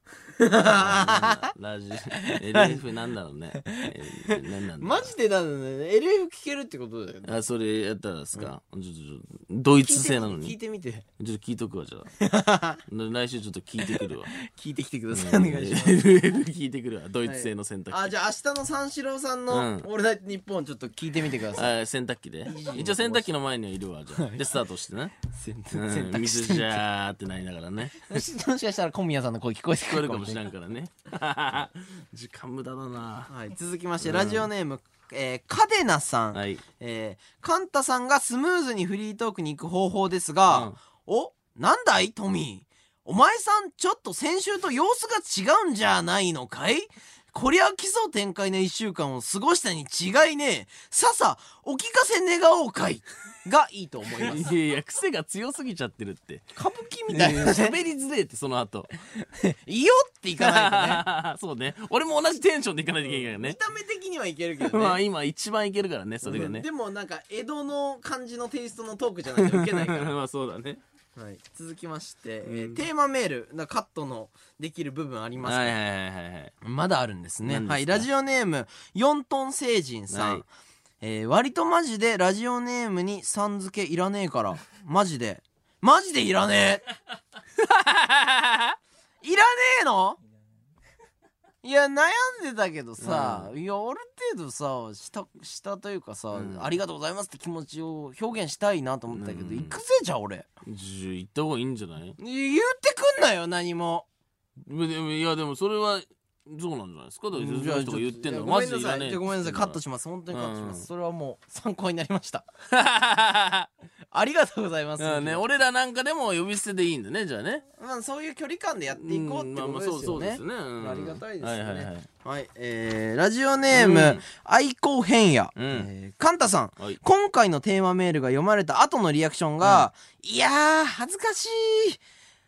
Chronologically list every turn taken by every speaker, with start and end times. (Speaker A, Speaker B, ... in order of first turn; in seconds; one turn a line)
Speaker A: 0.4-1.5
Speaker B: 0.7-5.1
Speaker A: 2.2-2.8
Speaker A: 3.6-7.3
Speaker B: 7.2-10.5
Speaker A: 9.8-11.1
Speaker B: 11.2-12.1
Speaker A: 12.2-12.8
Speaker B: 12.8-14.3
Speaker A: 13.9-16.0
Speaker B: 15.1-18.1
Speaker A: 17.2-21.7
Speaker B: 19.5-19.9
Speaker B: 21.5-25.1
Speaker A: 22.4-23.3
Speaker A: 24.1-24.4
Speaker A: 25.2-26.8
Speaker B: 25.7-28.2
Speaker A: 28.1-30.4
Speaker B: 29.9-33.3
Speaker A: 33.3-54.5
Speaker B: 34.0-34.5
Speaker B: 36.3-36.6
Speaker B: 40.5-40.8
Speaker B: 54.2-56.4
Speaker A: 56.5-57.7
Speaker B: 57.1-58.9
Speaker A: 59.2-61.0
Speaker B: 60.4-63.6
Speaker A: 63.0-65.0
Speaker B: 64.6-66.7
Speaker A: 66.2-70.1
Speaker B: 69.3-70.8
Speaker A: 71.1-75.8
Speaker B: 72.4-72.8
Speaker B: 75.4-76.5
Speaker A: 76.6-80.5
Speaker B: 77.4-78.1
Speaker B: 80.1-80.4
Speaker A: 81.0-86.8
Speaker B: 87.6-88.7
Speaker A: 89.2-90.2
Speaker A: 91.6-100.5
Speaker B: 93.0-93.5
Speaker B: 96.3-96.7
Speaker B: 99.1-99.8
Speaker B: 100.6-102.2
Speaker A: 102.2-104.1
Speaker B: 104.6-109.8
Speaker A: 107.3-112.5
Speaker B: 110.3-110.9
Speaker B: 112.7-113.7
Speaker A: 114.1-115.4
Speaker B: 115.0-117.6
Speaker A: 117.8-132.0
Speaker B: 119.0-122.1
Speaker B: 123.7-124.2
Speaker B: 125.5-125.9
Speaker B: 129.6-129.9